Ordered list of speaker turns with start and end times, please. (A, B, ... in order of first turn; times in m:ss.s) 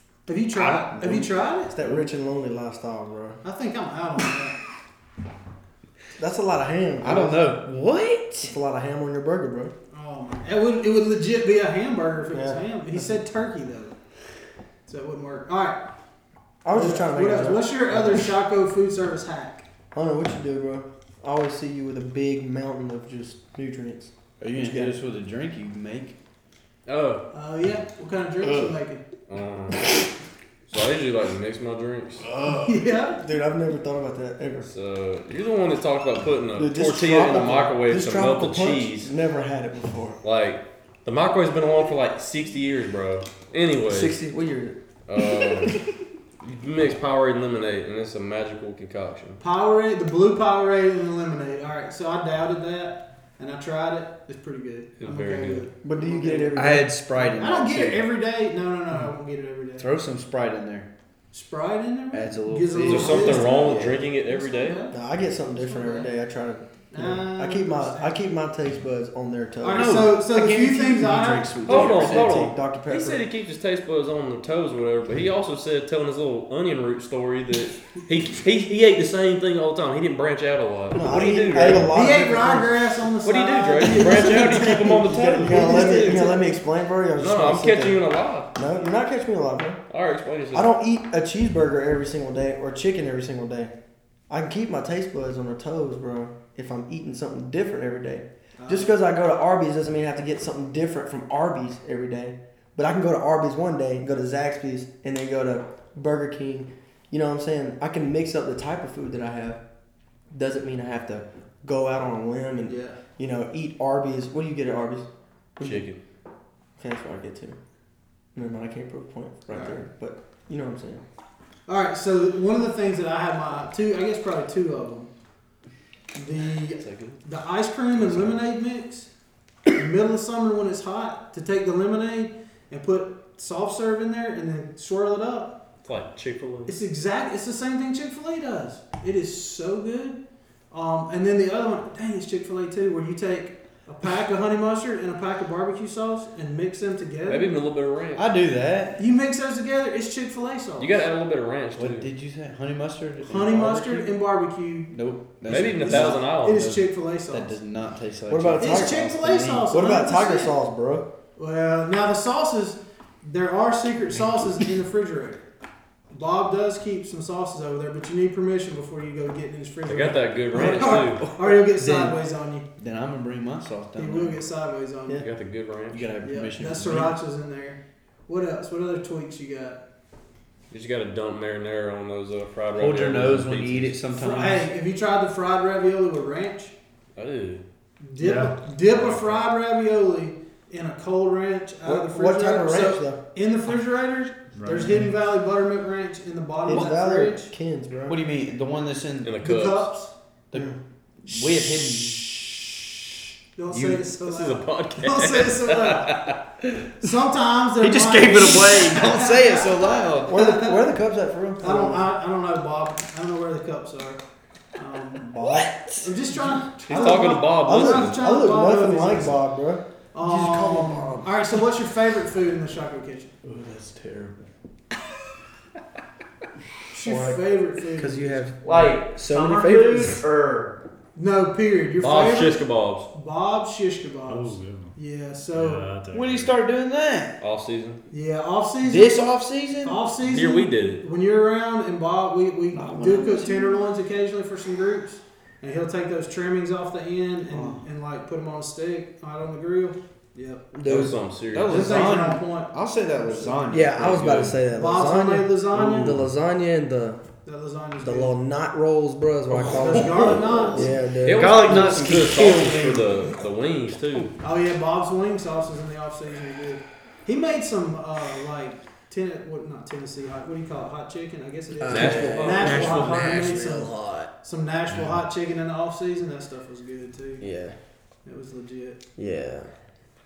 0:00.2-0:01.7 A
0:00.9-0:01.3 B
0:01.7-0:03.4 C
0:01.8-0:02.1 B
0:03.4-0:04.6 A
0:06.2-0:07.4 C
0:07.0-0:08.5 B
0:08.4-0:09.7 C
0:09.9-0:13.9 A
0:12.3-0:13.0 C
0:14.8-0:15.8 A
0:16.6-0:18.3 C
0:16.7-0:19.6 A
0:19.9-0:25.0 C
0:24.4-0:26.2 B
0:26.8-0:27.2 D
0:27.3-0:29.0 A
0:28.4-0:28.7 B
0:29.3-0:30.0 D
0:30.7-0:32.2 D
0:32.2-0:32.7 B
0:32.6-0:33.2 A
0:33.1-0:34.7 C
0:34.7-0:39.1 D
0:36.6-0:40.2 C
0:40.2-0:44.2 D
0:43.9-0:44.8 C
0:45.1-0:45.8 D
0:46.4-0:49.4 D
0:49.4-0:56.6 A
0:55.0-0:55.6 D
0:55.8-0:56.9 C
0:56.5-0:58.1 B
0:57.2-0:59.9 A
0:59.8-1:00.9 B
1:01.3-1:05.0 A
1:02.1-1:04.0 B
1:02.8-1:04.8 D
1:04.9-1:10.1 C
1:05.5-1:06.1 A
1:06.9-1:08.2 A
1:09.6-1:11.7 A
1:09.7-1:12.4 B
1:11.6-1:21.9 D
1:11.7-1:13.2 C
1:20.9-1:22.8 C
1:21.9-1:26.4 A
1:23.2-1:26.4 D
1:25.1-1:28.0 C
1:27.2-1:28.5 D
1:28.5-1:29.8 C
1:29.9-1:30.7 D
1:30.5-1:33.7 C
1:34.3-1:49.6 C
1:38.6-1:38.9 A
1:50.3-1:55.9 C
1:52.6-1:53.0 A
1:55.6-1:56.0 D
1:56.8-1:57.6 C
1:58.3-2:01.0 C
1:59.5-1:59.8 A
2:01.7-2:05.1 A
2:06.1-2:09.1 A
2:06.8-2:07.2 D
2:08.0-2:08.4 D
2:09.7-2:15.6 A
2:15.8-2:16.7 D
2:16.7-2:20.2 A
2:20.7-2:27.6 A
2:27.3-2:28.2 D
2:28.2-2:29.0 B
2:29.0-2:31.0 A
2:30.8-2:32.1 D
2:31.8-2:34.2 B
2:33.2-2:34.9 A
2:34.9-2:39.7 B
2:35.5-2:36.6 D
2:35.8-2:37.5 A
2:38.3-2:39.0 C
2:38.6-2:40.5 A
2:39.7-2:41.1 C
2:41.4-2:45.4 A
2:46.1-2:52.6 A
2:49.8-2:51.3 D
2:50.5-2:52.2 B
2:52.8-2:54.4 B
2:54.0-2:55.2 A
2:55.2-2:56.1 D
2:55.9-2:57.1 B
2:56.2-2:59.8 A
3:00.7-3:04.0 D
3:02.8-3:04.7 B
3:04.1-3:06.7 A
3:07.2-3:07.6 D
3:08.0-3:17.5 A
3:08.2-3:09.4 E
3:11.8-3:13.2 C
3:14.5-3:15.2 E
3:16.6-3:18.2 C
3:18.1-3:19.5 B
3:19.2-3:19.9 D
3:19.4-3:20.1 A
3:20.5-3:22.7 B
3:23.6-3:26.3 A
3:23.7-3:24.0 B
3:24.2-3:26.4 D
3:27.0-3:30.8 A
3:27.8-3:30.4 B
3:30.2-3:32.1 C
3:31.6-3:34.2 A
3:34.7-3:35.3 A
3:35.2-3:36.0 C
3:35.4-3:35.9 B
3:36.0-3:39.4 A
3:36.9-3:41.3 C
3:36.9-3:38.2 D
3:40.1-3:43.3 A
3:43.4-3:44.4 B
3:46.9-3:48.4 A
3:47.0-3:47.4 C
3:48.0-3:50.2 C
3:48.6-3:50.8 B
3:51.1-3:55.8 A
3:52.0-3:53.1 D
3:54.3-3:55.0 E
3:55.5-3:56.5 E
3:56.1-3:57.4 B
3:57.4-3:58.0 D
3:58.1-3:59.2 A
3:58.8-4:00.0 B
3:59.8-4:10.7 A
4:00.2-4:01.0 D
4:02.7-4:03.6 B
4:03.0-4:03.4 C
4:10.7-4:11.2 C
4:10.8-4:12.0 D
4:11.5-4:14.6 B
4:11.7-4:13.6 A
4:13.7-4:17.2 C
4:14.7-4:16.2 A
4:17.4-4:18.4 A
4:18.0-4:22.3 C
4:19.6-4:23.1 B
4:19.7-4:21.0 A
4:20.3-4:20.7 D
4:21.2-4:24.3 D
4:24.4-4:37.5 A
4:31.8-4:34.3 C
4:31.9-4:33.3 D
4:31.9-4:33.9 B
4:37.4-4:37.8 C
4:38.2-4:39.0 A
4:39.2-4:39.7 C